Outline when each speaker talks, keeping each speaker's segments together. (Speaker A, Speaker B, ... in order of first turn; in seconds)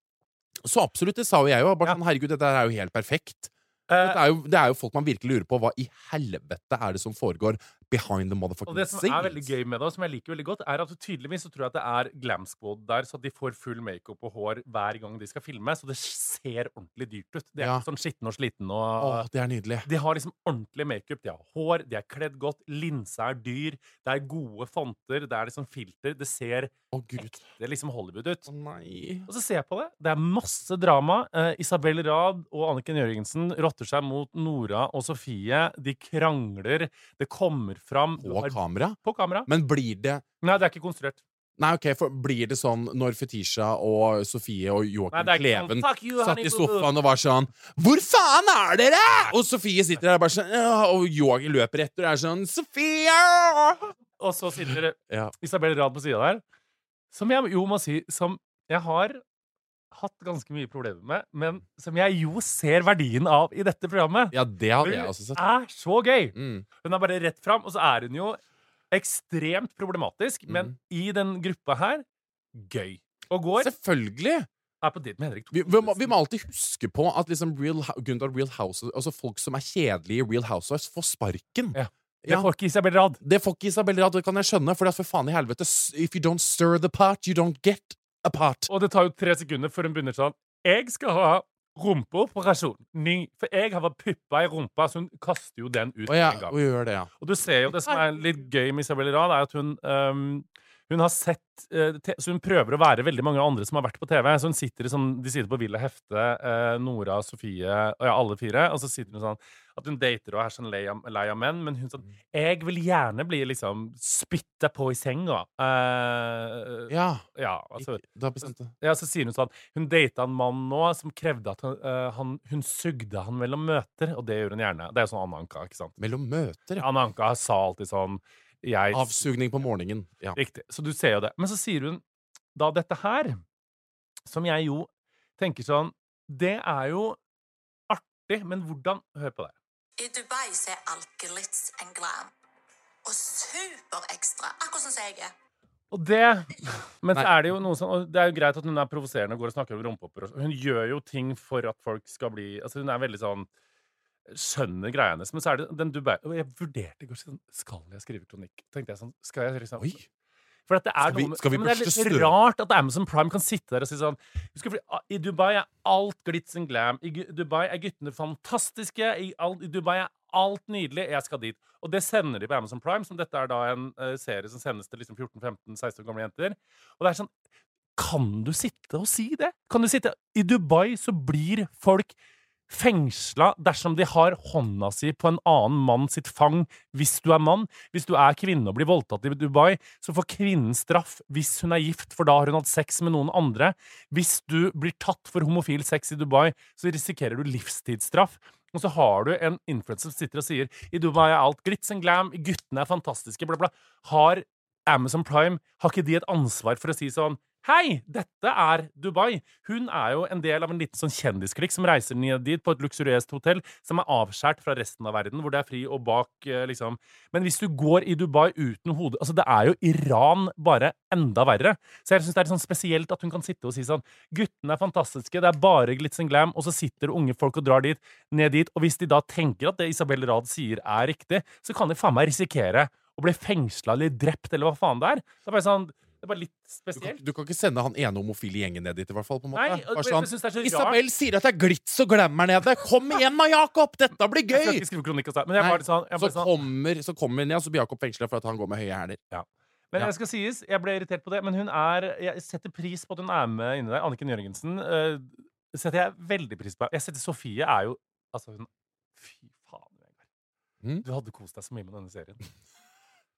Speaker A: 0.6-9.5, 17.6-17.8, 19.0-19.9, 26.9-27.4, 28.5-29.3, 38.2-40.2, 41.6-53.9, 64.3-65.4, 66.3-66.7, 70.5-70.7, 73.6-74.5, 75.5-82.5, 83.2-88.7, 96.1-97.1, 97.6-98.1, 116.9-117.2, 117.8-118.7, 126.0-126.9, 128.9-130.4, 161.0-162.3, 236.9-244.8, 245.6-249.2
Speaker B: 3.9-4.2, 8.7-19.2, 19.8-28.5, 29.3-39.5, 40.4-41.2, 45.1-46.9, 54.2-56.4, 57.1-59.2, 59.9-68.4, 68.9-73.7, 74.8-76.2, 81.7-83.2, 88.7-96.6, 97.2-126.0, 126.8-129.1, 130.3-132.0, 132.5-133.4, 134.3-137.2, 137.9-139.5, 145.9-153.5, 154.3-160.0, 160.7-177.3, 177.9-182.1, 182.7-237.2, 239.5-241.0, 244.5-246.5, 249.3-260.2, 261.0-262.4
Speaker C: 140.0-142.3, 143.0-145.3